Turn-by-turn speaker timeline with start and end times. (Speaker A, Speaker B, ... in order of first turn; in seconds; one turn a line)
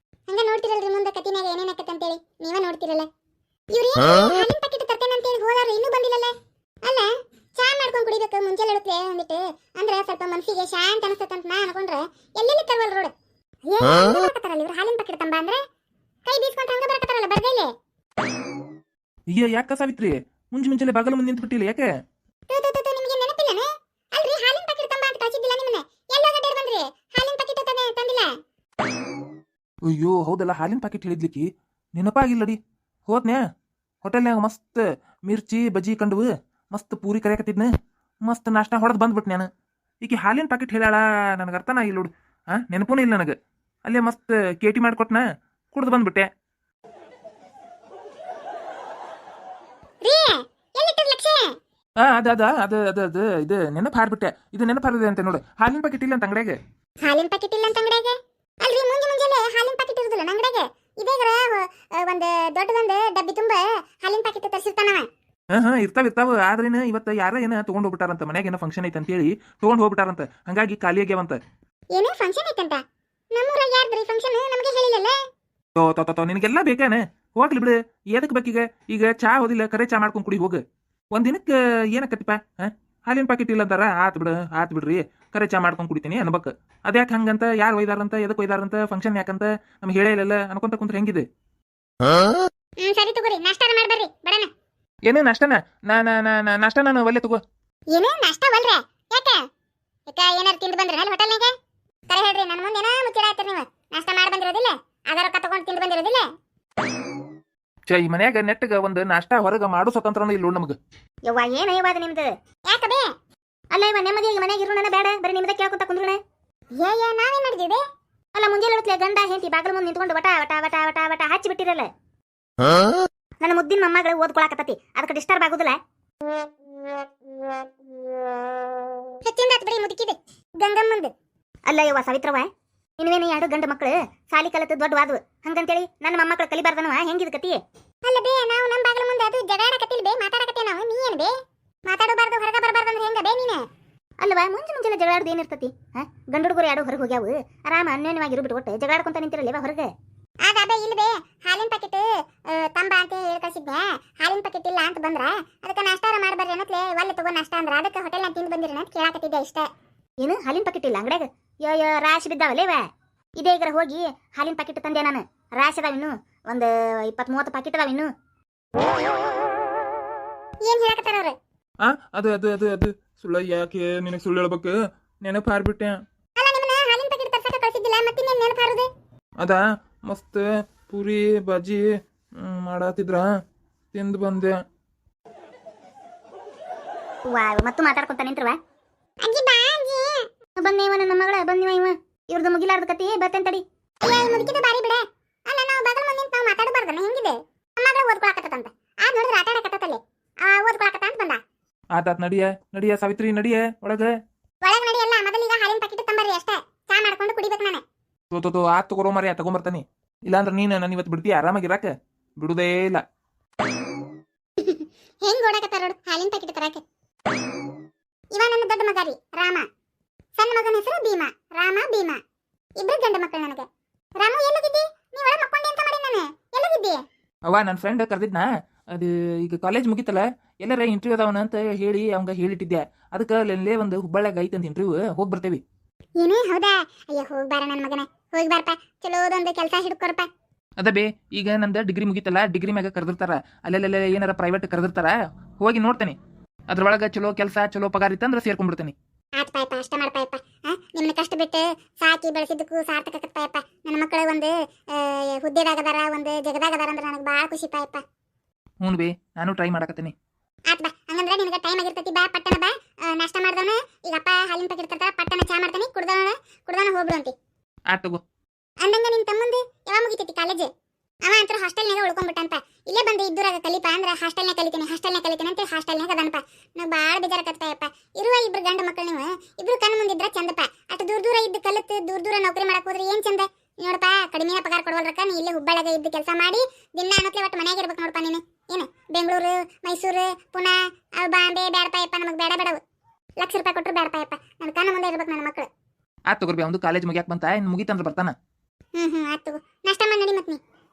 Speaker A: 0.3-3.1
Speaker A: 3.7-13.1
Speaker A: 13.6-15.6
Speaker A: 16.2-17.7
Speaker B: 19.3-21.9
Speaker A: 22.5-28.3
Speaker B: 29.9-33.4
Speaker B: 34.0-37.7
Speaker B: 38.2-39.5
Speaker B: 40.0-43.3
Speaker B: 43.9-45.2
Speaker B: 45.7-46.3
Speaker A: 50.0-51.5
Speaker B: 52.0-56.6
Speaker A: 57.0-65.1
Speaker B: 65.5-71.4
Speaker A: 71.9-72.8
Speaker A: 73.3-75.2
Speaker B: 75.8-80.6
Speaker B: 81.1-91.2
Speaker A: 92.8-94.5
Speaker B: 95.1-97.4
Speaker A: 97.9-99.4
Speaker A: 100.1-101.5
Speaker A: 102.1-106.3
Speaker B: 107.9-110.8
Speaker C: 111.3-112.3
Speaker A: 112.7-113.1
Speaker C: 113.7-116.2
Speaker A: 116.8-117.8
Speaker C: 118.3-121.9
Speaker C: 123.4-125.8
Speaker A: 129.2-131.1
Speaker C: 131.7-132.5
Speaker C: 133.0-137.6
Speaker A: 138.0-141.3
Speaker A: 141.9-143.6
Speaker C: 144.2-149.9
Speaker A: 150.4-159.7
Speaker C: 160.2-162.8
Speaker C: 163.4-168.1
Speaker A: 170.6-171.4
Speaker B: 171.8-176.0
Speaker A: 176.4-178.9
Speaker B: 179.4-181.8
Speaker B: 182.4-183.3
Speaker B: 183.9-184.6
Speaker C: 187.3-188.6
Speaker A: 189.2-190.3
Speaker C: 190.6-193.6
Speaker A: 194.0-201.4
Speaker B: 201.9-204.1
Speaker A: 204.6-207.8
Speaker B: 208.3-213.0
Speaker A: 214.6-216.8
Speaker A: 218.3-219.7
Speaker A: 220.3-222.2
Speaker A: 222.8-227.0
Speaker B: 227.5-235.6
Speaker A: 236.2-240.3
Speaker B: 240.8-246.2
Speaker B: 246.7-248.9
Speaker A: 249.4-258.0
Speaker B: 258.8-260.1
Speaker A: 260.7-267.3
Speaker B: 267.9-268.2
Speaker A: 268.8-270.7
Speaker A: 271.2-292.8
Speaker A: 293.4-295.7
Speaker B: 296.3-298.3
Speaker A: 299.0-300.6